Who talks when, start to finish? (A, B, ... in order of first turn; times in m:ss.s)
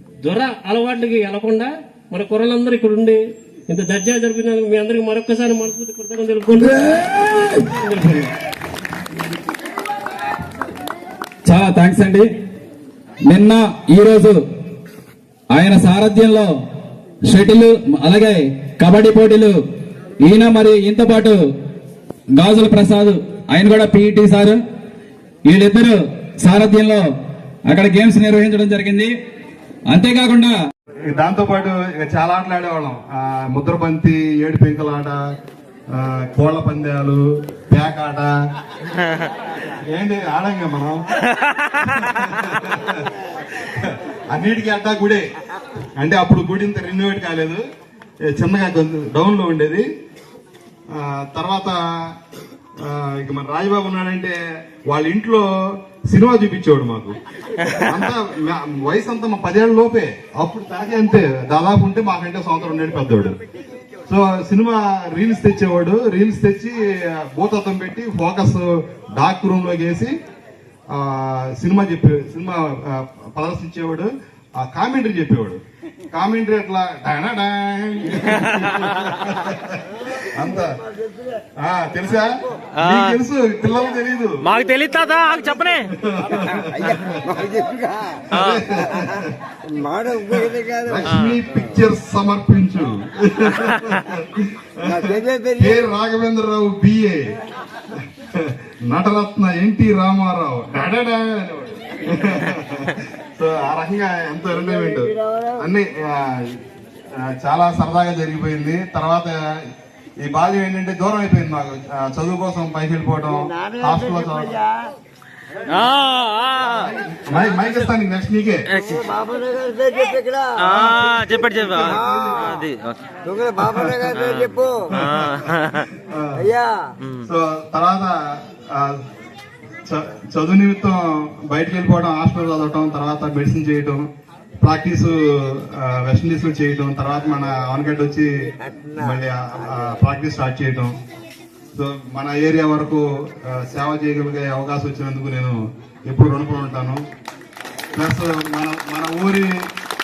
0:00.2-0:08.3 A
0:11.4-0:12.3 B
0:13.2-0:14.4 B
0:15.5-0:16.5 B
0:17.3-0:19.6 B
0:20.2-0:21.4 B
0:22.4-0:24.6 B
0:25.5-0:27.0 B
0:27.7-0:29.1 B
0:29.9-0:30.5 B
0:31.0-0:35.3 C
0:35.9-0:38.3 C
0:39.9-0:41.0 C
0:41.8-0:45.2 C
0:46.0-0:47.6 C
0:48.3-0:49.9 C
0:50.9-0:52.1 C
0:52.8-0:57.2 C
0:57.7-1:03.4 C
1:04.0-1:10.1 C
1:10.9-1:15.6 C
1:16.1-1:20.7 C
1:21.6-1:24.5 C
1:22.8-1:23.1 D
1:24.4-1:25.9 D
1:25.9-1:27.2 C
1:26.7-1:28.2 E
1:28.3-1:29.4 C
1:29.7-1:31.0 E
1:30.8-1:37.3 C
1:35.0-1:35.5 E
1:38.2-1:46.6 C
1:47.2-1:49.4 C
1:50.2-1:54.6 C
1:55.7-1:56.9 D
1:56.7-1:58.7 C
1:58.9-2:00.8 E
2:00.6-2:03.0 D
2:00.7-2:02.6 C
2:01.9-2:02.5 E
2:03.2-2:04.9 E
2:03.6-2:04.1 C
2:04.9-2:06.5 C
2:05.0-2:05.7 D
2:07.2-2:09.0 C
2:09.9-2:14.1 C
2:14.6-2:18.3 C
2:18.9-2:21.0 C
2:21.7-2:27.0 C
2:27.9-2:29.5 C